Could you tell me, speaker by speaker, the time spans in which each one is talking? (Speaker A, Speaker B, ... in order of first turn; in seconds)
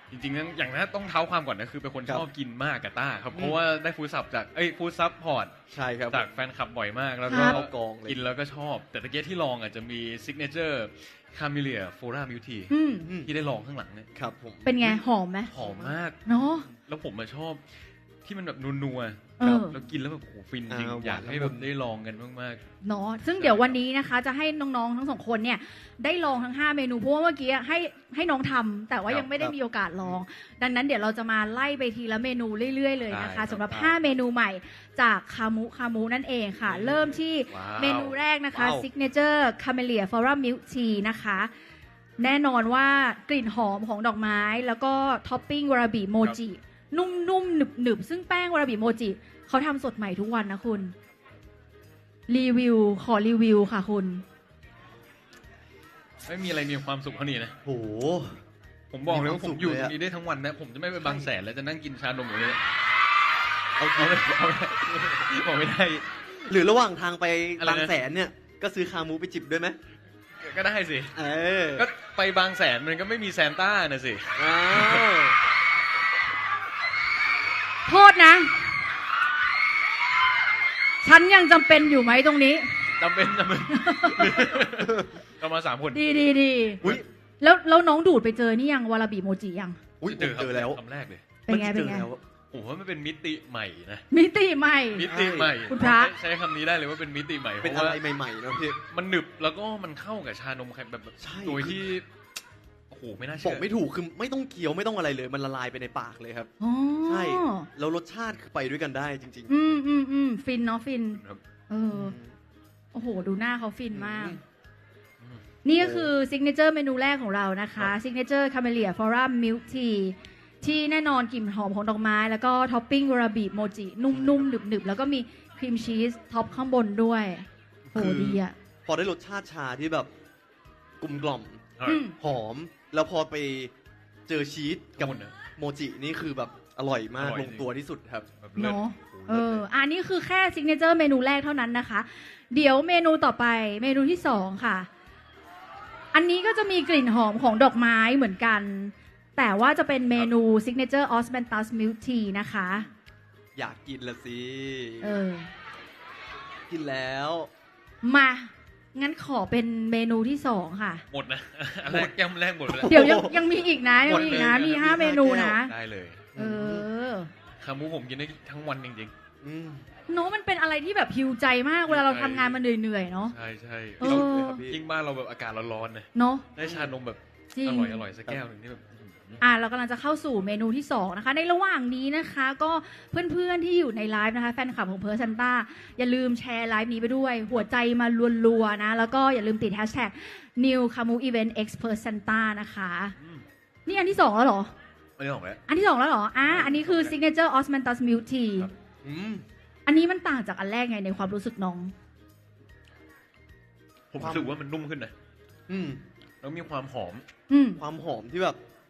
Speaker A: 0.1-5.5, 6.1-14.1, 15.5-17.6, 18.2-22.6, 23.4-23.7, 33.1-33.6, 37.5-38.2, 56.2-57.5, 58.9-62.6, 63.9-66.0, 67.6-67.9, 70.4-71.2, 71.8-75.0, 83.0-86.2, 90.0-91.2, 92.5-94.0, 94.9-98.0, 98.9-102.0, 102.9-103.6, 131.8-132.0, 135.0-135.3, 137.2-137.7, 138.4-139.5, 161.1-163.2, 164.0-166.3, 167.6-169.1, 171.9-172.6, 173.3-179.4, 193.2-193.4, 195.2-195.6, 196.5-197.0, 204.1-205.1, 206.4-207.2
Speaker B: 3.3-3.6, 5.7-6.3, 7.2-8.2, 13.0-13.3, 14.1-15.0, 15.5-15.9, 20.7-21.7, 33.6-33.9, 38.5-38.9, 57.6-58.4, 59.1-59.9, 61.0-61.3, 63.8-64.4, 64.9-65.2, 66.4-69.8, 71.1-71.9, 74.3-75.4, 84.8-85.1, 90.0-90.8, 91.5-92.2, 95.0-95.6, 97.6-98.8, 101.2-101.9, 103.4-106.5, 107.0-109.6, 111.9-112.3, 113.9-114.4, 115.8-116.1, 124.1-124.5, 127.9-130.1, 131.0-133.7, 134.3-138.3, 139.3-139.6, 153.5-155.2, 156.7-157.5, 161.9-162.1, 162.7-165.6, 166.3-166.9, 169.4-169.8, 174.0-174.8, 176.6-176.9, 199.0-199.4, 204.2-204.5, 205.7-206.0, 207.8-208.6
Speaker C: 7.3-7.6, 12.7-13.1, 14.6-15.5, 16.2-16.7, 19.4-19.8, 22.8-41.5, 42.2-50.9, 52.3-54.2, 77.9-78.7, 81.0-82.7, 83.7-84.5, 85.9-89.8, 91.5-92.1, 94.1-95.1, 95.7-96.1, 106.6-107.7, 109.5-112.1, 112.9-114.4, 115.6-128.6, 131.8-132.2, 138.6-144.9, 146.1-152.9, 155.0-155.5, 158.0-161.0, 162.8-165.7, 166.3-167.3, 170.1-173.3, 174.0-174.6, 176.1-176.5, 177.5-178.0, 179.4-193.1, 193.8-194.7, 195.7-198.7, 199.9-201.9, 207.5-207.8